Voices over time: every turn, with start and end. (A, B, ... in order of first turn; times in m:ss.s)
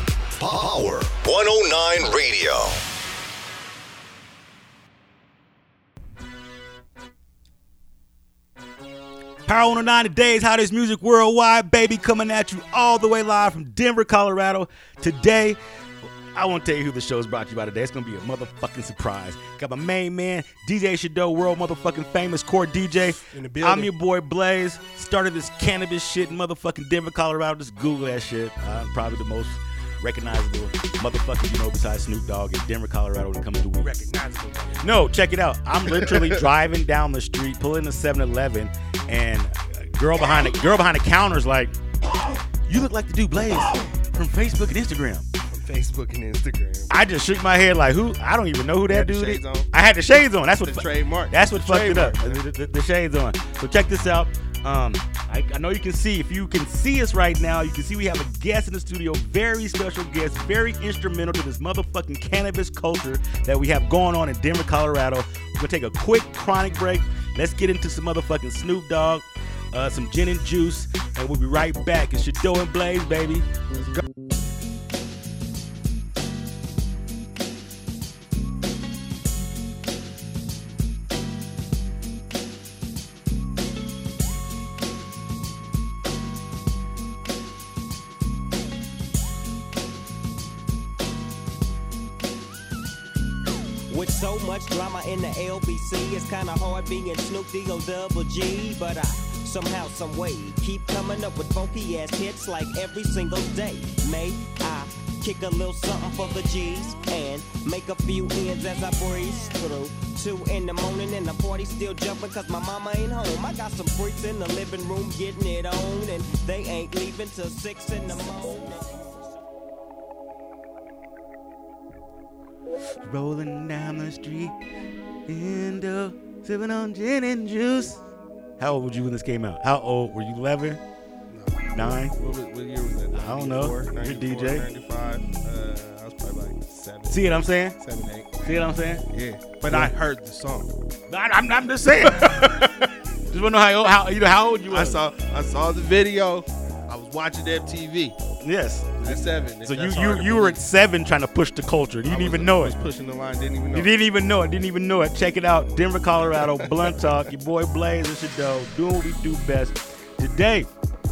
0:00.4-0:02.8 A
0:09.5-0:15.6 B
0:16.3-0:34.0 B
0:23.2-0:23.9 C
0:33.8-0:34.9 C
0:34.8-0:41.8 B
0:36.0-0:36.3 C
0:42.7-0:45.3 B
0:45.5-0:46.9 C
0:46.9-1:13.5 B
0:48.9-0:49.7 C
0:50.6-0:52.4 C
1:33.9-1:59.1 D
2:03.0-2:04.6 B
2:05.3-2:08.0 B
2:08.6-2:10.8 B
2:11.3-2:18.3 C
2:11.7-2:12.2 B
2:13.1-2:14.7 B
2:17.1-2:17.8 B
2:18.4-2:19.0 B
2:19.1-2:20.7 C
2:19.7-2:19.9 B
2:21.1-2:22.5 B
2:22.2-2:22.9 C
2:23.3-2:25.0 B
2:24.7-2:28.2 C
2:28.4-2:32.8 B
2:29.0-2:30.6 C
2:32.0-2:33.9 C
2:33.7-2:40.7 B
2:36.5-2:37.1 C